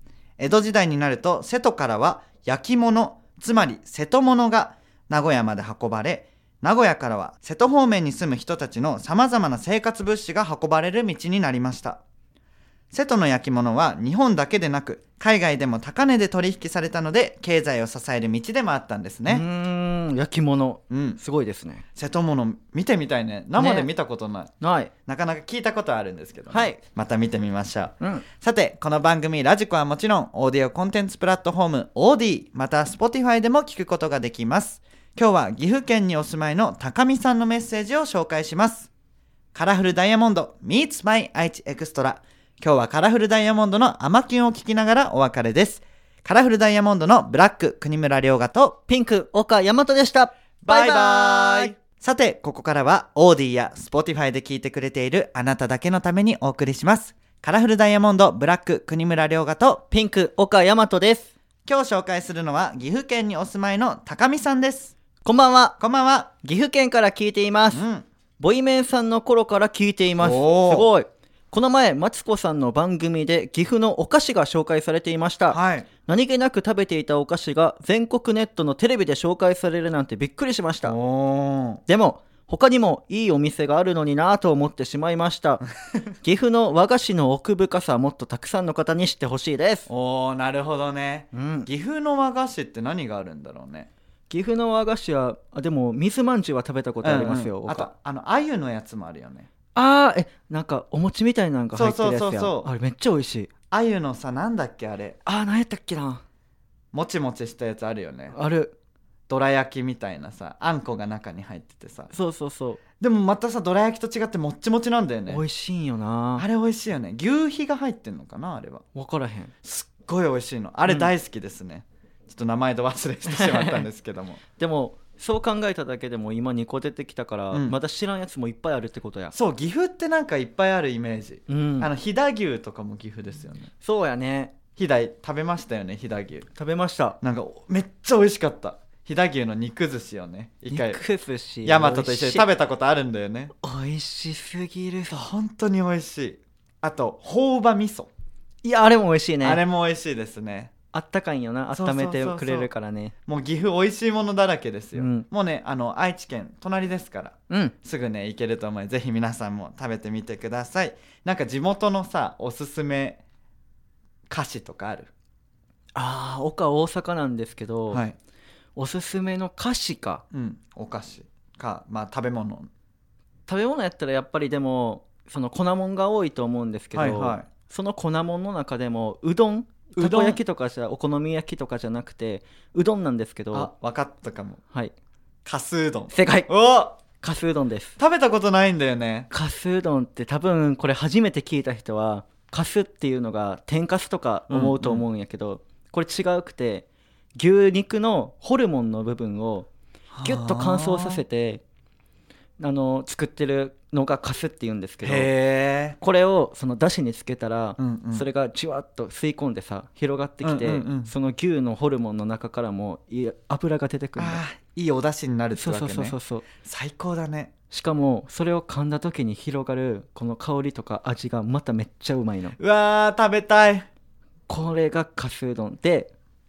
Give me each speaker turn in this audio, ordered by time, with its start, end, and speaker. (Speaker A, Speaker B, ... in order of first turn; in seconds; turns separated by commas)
Speaker A: 0.4-12.0, Speaker A: 12.9-19.4, Speaker B: 19.3-21.8, Speaker A: 20.9-21.2, Speaker A: 22.0-24.5, Speaker B: 23.6-23.9, Speaker B: 24.6-24.9, Speaker A: 25.1-38.9, Speaker B: 26.5-26.8, Speaker A: 39.5-48.8, Speaker B: 48.9-51.7, Speaker A: 50.6-59.8, Speaker B: 59.9-61.3, Speaker A: 61.7-64.9, Speaker B: 65.2-65.8, Speaker A: 65.8-66.3, Speaker B: 66.4-67.8, Speaker A: 67.7-68.0, Speaker B: 68.4-81.0, Speaker A: 70.2-70.9, Speaker A: 75.5-75.9, Speaker A: 80.8-81.8, Speaker B: 81.9-85.6, Speaker B: 86.2-89.9, Speaker A: 89.9-93.9, Speaker B: 91.3-91.7, Speaker B: 94.3-97.9, Speaker A: 97.0-99.5, Speaker B: 99.7-103.5, Speaker A: 101.7-102.7, Speaker A: 103.7-105.2, Speaker B: 105.2-106.2, Speaker A: 106.9-108.4, Speaker B: 108.3-108.7, Speaker A: 109.3-112.1, Speaker B: 112.1-112.8, Speaker A: 113.0-115.4, Speaker B: 115.3-116.4, Speaker A: 116.4-118.8, Speaker B: 118.9-119.5, Speaker A: 119.6-124.4, Speaker B: 120.9-121.1, Speaker B: 123.3-123.8, Speaker B: 124.6-129.3, Speaker A: 129.3-133.7, Speaker B: 131.5-131.9, Speaker B: 133.8-134.5, Speaker A: 134.8-136.5, Speaker B: 136.6-137.2, Speaker A: 137.2-141.0, Speaker B: 140.7-142.5, Speaker A: 141.7-143.5, Speaker B: 143.6-145.2, Speaker A: 145.1-148.1, Speaker B: 148.6-149.6, Speaker A: 149.4-150.7, Speaker B: 150.9-153.1, Speaker A: 151.7-152.7, Speaker A: 153.3-163.2, Speaker B: 154.9-155.3, Speaker A: 164.3-165.1, Speaker B: 166.0-168.0, Speaker A: 167.9-168.2, Speaker B: 168.8-170.2, Speaker A: 170.3-172.7, Speaker B: 173.5-183.7, Speaker A: 176.9-177.5, Speaker A: 180.0-180.4, Speaker A: 183.5-184.6, Speaker A: 185.4-187.0, Speaker B: 186.1-186.5, Speaker B: 187.2-188.0, Speaker A: 188.0-189.3, Speaker B: 189.3-196.9, Speaker A: 194.5-195.1, Speaker B: 197.4-199.7, Speaker A: 200.1-201.2, Speaker B: 200.2-201.6, Speaker B: 202.6-205.3, Speaker A: 205.0-206.0, Speaker B: 206.0-214.4, Speaker A: 207.8-208.3, Speaker A: 210.4-211.1, Speaker A: 214.2-217.5, Speaker B: 215.6-216.5, Speaker B: 217.7-222.6, Speaker A: 222.6-223.9, Speaker B: 224.5-226.1